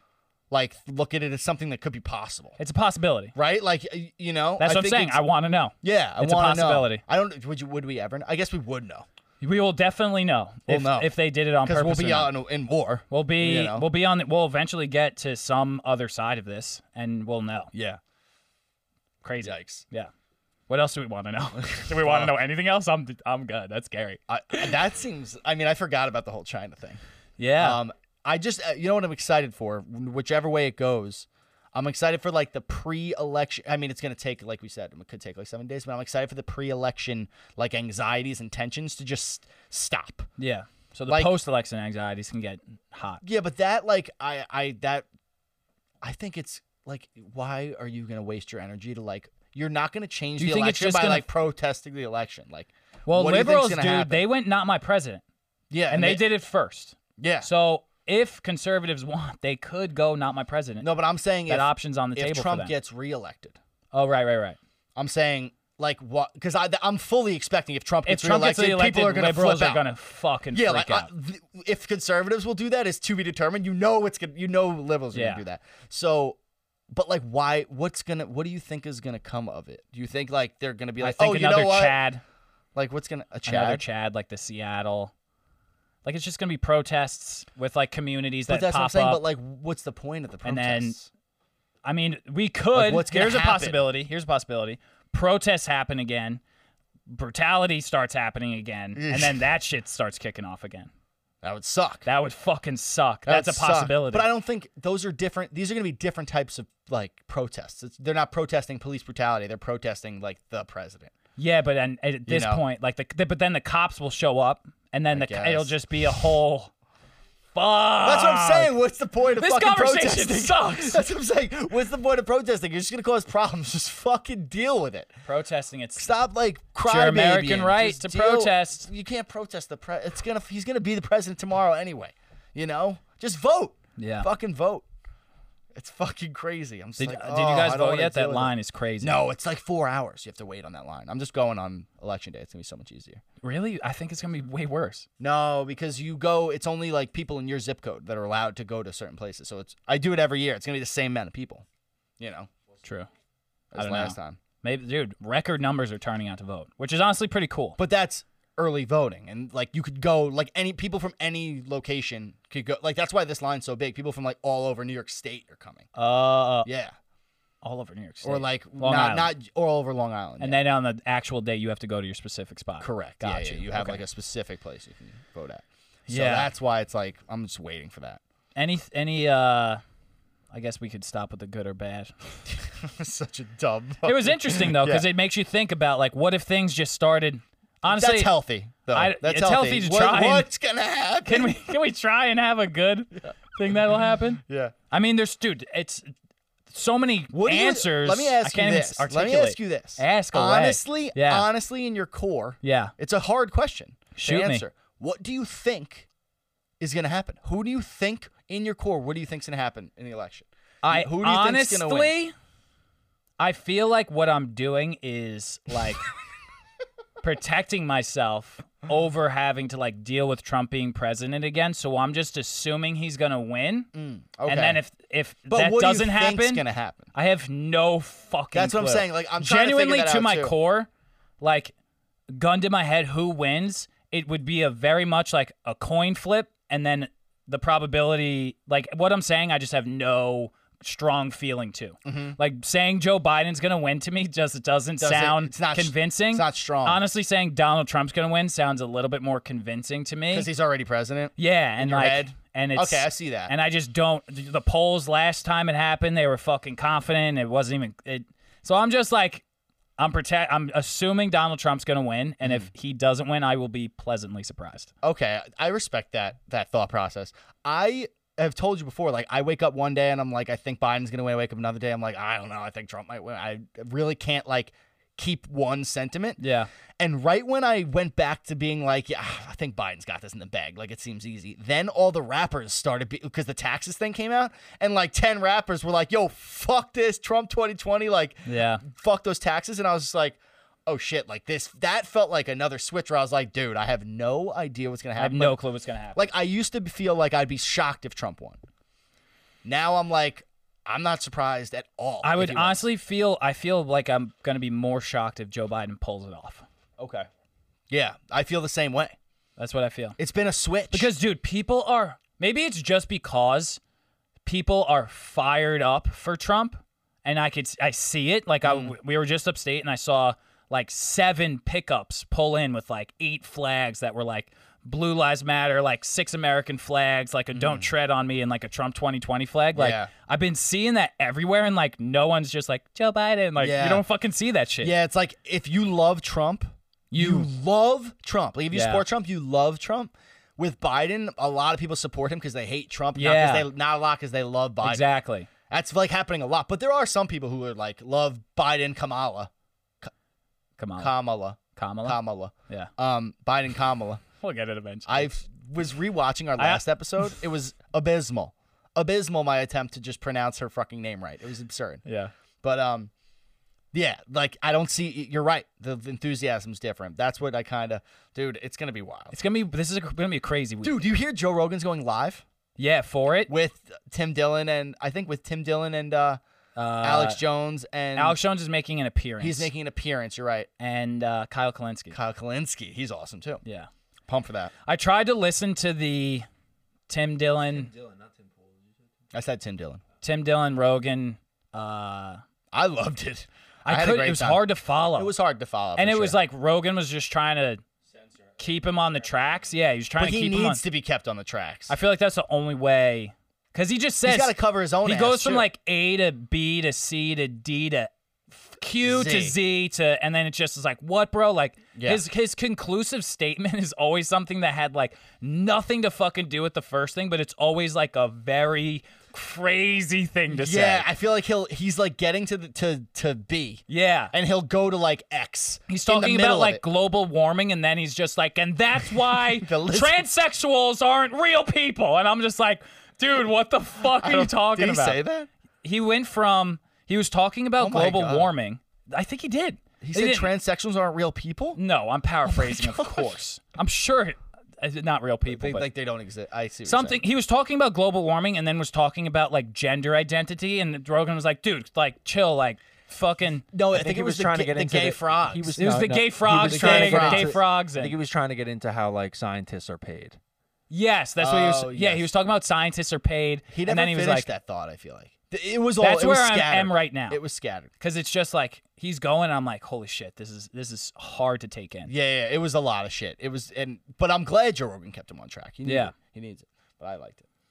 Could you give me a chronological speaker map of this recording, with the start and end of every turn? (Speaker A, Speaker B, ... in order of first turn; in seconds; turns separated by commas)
Speaker A: 0.5-2.6, Speaker B: 2.6-3.3, Speaker A: 3.4-5.2, Speaker B: 4.6-7.0, Speaker A: 5.8-9.1, Speaker B: 9.4-12.3, Speaker A: 10.7-13.9, Speaker B: 13.1-17.7, Speaker A: 17.7-18.0, Speaker B: 19.2-20.1, Speaker A: 19.4-19.8, Speaker B: 20.7-24.6, Speaker A: 21.6-22.3, Speaker A: 24.3-27.0, Speaker B: 27.4-27.8, Speaker A: 27.6-40.3, Speaker B: 40.4-43.2, Speaker A: 43.2-45.1, Speaker A: 46.0-54.2, Speaker B: 50.4-51.2, Speaker B: 53.0-55.2, Speaker A: 55.7-56.2, Speaker B: 55.9-60.9, Speaker A: 57.2-57.5, Speaker A: 60.8-63.6, Speaker B: 61.5-62.7, Speaker B: 63.9-64.6, Speaker A: 65.0-69.8, Speaker B: 68.0-71.1, Speaker A: 70.5-76.4, Speaker B: 75.1-75.4, Speaker A: 76.9-82.0, Speaker B: 81.0-82.2, Speaker A: 82.7-83.8, Speaker B: 83.5-85.1, Speaker B: 86.0-89.2, Speaker A: 88.5-91.1, Speaker B: 90.4-91.0, Speaker B: 91.8-96.4, Speaker A: 92.7-93.8, Speaker B: 97.1-100.9, Speaker A: 98.9-99.4, Speaker A: 101.4-102.1, Speaker B: 102.0-104.3, Speaker A: 103.2-111.1, Speaker B: 111.4-116.7, Speaker A: 112.3-112.6, Speaker A: 115.1-115.7, Speaker B: 117.5-118.7, Speaker A: 118.0-125.1, Speaker B: 119.4-121.0, Speaker B: 125.2-126.1, Speaker A: 126.0-134.8, Speaker B: 126.8-128.9, Speaker B: 134.0-134.3, Speaker A: 135.7-143.2, Speaker B: 137.0-139.2, Speaker B: 143.4-145.1, Speaker A: 145.2-151.6, Speaker A: 152.2-152.5, Speaker B: 152.8-153.1, Speaker A: 153.7-154.4, Speaker B: 153.8-157.8, Speaker A: 157.8-165.9, Speaker B: 165.9-166.7, Speaker A: 166.6-166.9, Speaker B: 167.6-169.3, Speaker A: 168.2-170.6, Speaker B: 170.4-174.0, Speaker A: 172.8-178.2, Speaker B: 176.1-176.5, Speaker B: 178.6-179.8, Speaker B: 180.5-182.1, Speaker A: 182.5-185.1, Speaker B: 184.0-188.3, Speaker A: 187.8-191.7, Speaker B: 188.9-190.5, Speaker B: 191.2-196.1, Speaker A: 194.4-194.7, Speaker B: 196.7-201.4, Speaker A: 197.3-206.1, Speaker B: 202.6-202.9, Speaker B: 204.2-204.6, Speaker A: 206.8-212.1, Speaker B: 210.8-212.3, Speaker B: 213.4-216.1, Speaker B: 217.2-223.9, Speaker A: 223.9-224.8, Speaker B: 224.5-230.9, Speaker A: 225.5-227.1, Speaker A: 228.5-230.5, Speaker B: 231.4-231.7, Speaker B: 232.3-250.5, Speaker A: 242.0-242.4, Speaker A: 245.0-247.0, Speaker A: 250.3-253.5, Speaker B: 251.4-259.4, Speaker B: 260.0-264.9, Speaker A: 262.4-262.7, Speaker A: 265.0-276.4, Speaker B: 276.4-276.7, Speaker A: 277.0-295.6, Speaker B: 288.4-288.8, Speaker B: 295.2-296.3, Speaker A: 296.1-298.6, Speaker A: 299.6-302.9, Speaker B: 302.2-307.2, Speaker A: 307.9-309.1, Speaker B: 309.6-310.2, Speaker A: 310.2-311.1, Speaker B: 310.9-313.8, Speaker B: 314.4-334.9, Speaker A: 318.6-318.9, Speaker A: 327.5-327.9, Speaker A: 329.7-330.1, Speaker A: 333.6-334.0, Speaker A: 334.8-345.0, Speaker B: 337.1-337.5, Speaker B: 338.7-339.0, Speaker B: 343.1-343.7, Speaker B: 344.8-345.5, Speaker A: 345.7-349.5, Speaker B: 350.8-351.1, Speaker A: 351.0-354.2, Speaker B: 351.7-352.2, Speaker B: 354.4-355.3, Speaker A: 355.1-362.0, Speaker B: 356.6-357.3, Speaker B: 362.0-362.3, Speaker A: 362.6-363.1, Speaker A: 363.9-369.3, Speaker B: 369.3-371.0, Speaker A: 370.8-372.4, Speaker B: 372.8-373.5, Speaker A: 373.5-376.4, Speaker B: 376.8-377.4, Speaker A: 377.0-378.4, Speaker B: 378.1-379.7, Speaker A: 379.4-380.7, Speaker B: 380.8-382.2, Speaker A: 382.1-383.6, Speaker B: 383.6-383.9, Speaker A: 384.3-384.7, Speaker B: 384.9-386.4, Speaker B: 387.1-387.9, Speaker C: 387.9-388.4, Speaker A: 389.3-390.0, Speaker B: 390.2-392.4, Speaker A: 392.7-394.6, Speaker B: 393.8-395.3, Speaker A: 395.1-396.4, Speaker B: 395.9-397.8, Speaker B: 398.6-400.8, Speaker A: 400.2-401.9, Speaker B: 401.9-421.1, Speaker A: 404.2-405.7, Speaker A: 409.0-409.6, Speaker A: 411.9-412.2, Speaker A: 420.5-426.8, Speaker B: 423.9-424.3, Speaker B: 425.9-435.2, Speaker A: 429.4-430.2, Speaker A: 434.0-435.5, Speaker B: 435.8-440.5, Speaker A: 437.8-438.5, Speaker A: 440.0-441.8, Speaker B: 441.8-445.9, Speaker A: 442.4-443.3, Speaker A: 445.5-447.2, Speaker B: 446.9-453.6, Speaker A: 453.7-455.8, Speaker C: 453.9-460.4, Speaker B: 455.8-458.1, Speaker A: 456.5-457.6, Speaker B: 460.9-464.5, Speaker A: 461.4-462.3, Speaker A: 463.7-467.9, Speaker B: 466.0-467.4, Speaker B: 468.0-472.1, Speaker A: 472.1-477.4, Speaker B: 475.8-476.1